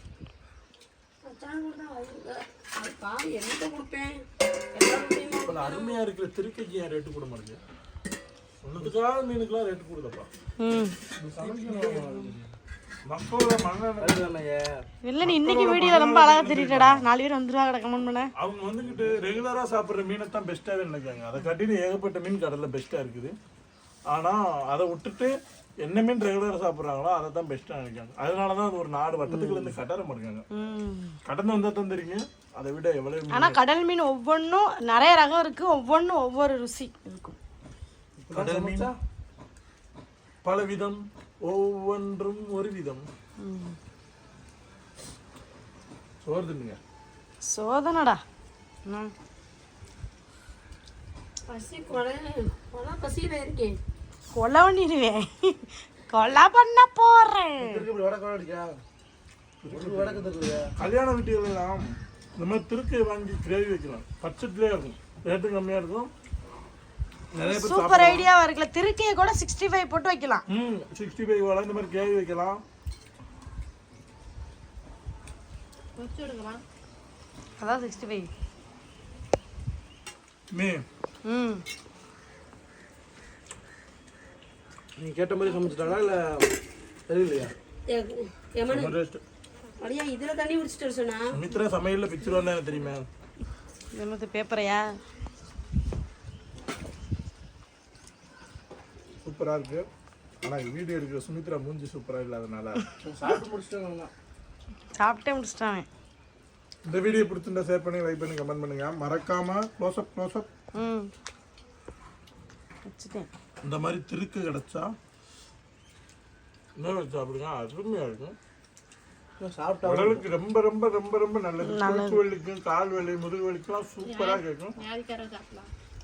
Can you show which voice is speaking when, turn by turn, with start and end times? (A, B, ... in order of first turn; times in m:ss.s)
0:01.2-0:06.0 A
0:05.4-0:07.6 B
0:08.6-0:10.3 B
0:10.6-0:10.9 C
0:11.2-0:12.4 D
0:11.4-0:12.1 B
0:13.0-0:14.3 B
0:14.0-0:14.8 D
0:15.0-0:18.3 C
0:15.2-0:17.0 B
0:18.4-0:23.3 B
0:24.1-0:30.4 B
0:29.3-0:29.6 C
0:30.5-0:31.2 C
0:31.2-0:33.6 B
0:33.3-0:37.4 C
0:38.3-0:38.9 D
0:38.3-0:38.9 B
0:40.4-0:43.0 B
0:43.4-0:43.8 C
0:46.2-0:46.8 B
0:47.4-0:48.2 C
0:48.8-0:49.1 C
0:51.5-0:53.8 A
0:54.3-0:57.8 C
0:57.6-0:58.8 D
0:59.6-1:06.1 B
0:59.7-1:00.7 D
1:07.3-1:08.3 B
1:07.4-1:10.4 C
1:10.5-1:12.6 B
1:16.0-1:16.6 A
1:17.6-1:18.3 C
1:20.5-1:20.8 B
1:21.2-1:21.6 C
1:25.0-1:26.5 D
1:27.1-1:27.5 D
1:27.9-1:29.0 A
1:28.6-1:29.2 B
1:29.8-1:31.5 A
1:31.3-1:33.1 B
1:34.0-1:35.0 C
1:39.2-1:39.8 B
1:40.4-1:43.0 B
1:43.0-1:44.1 D
1:45.0-1:45.9 C
1:46.9-1:50.5 B
1:50.8-1:51.1 C
1:52.8-1:53.3 C
1:53.6-1:54.9 B
1:56.8-1:58.4 B
1:59.4-2:00.2 D
1:59.8-2:04.8 B
2:01.6-2:02.2 C
2:04.8-2:05.7 A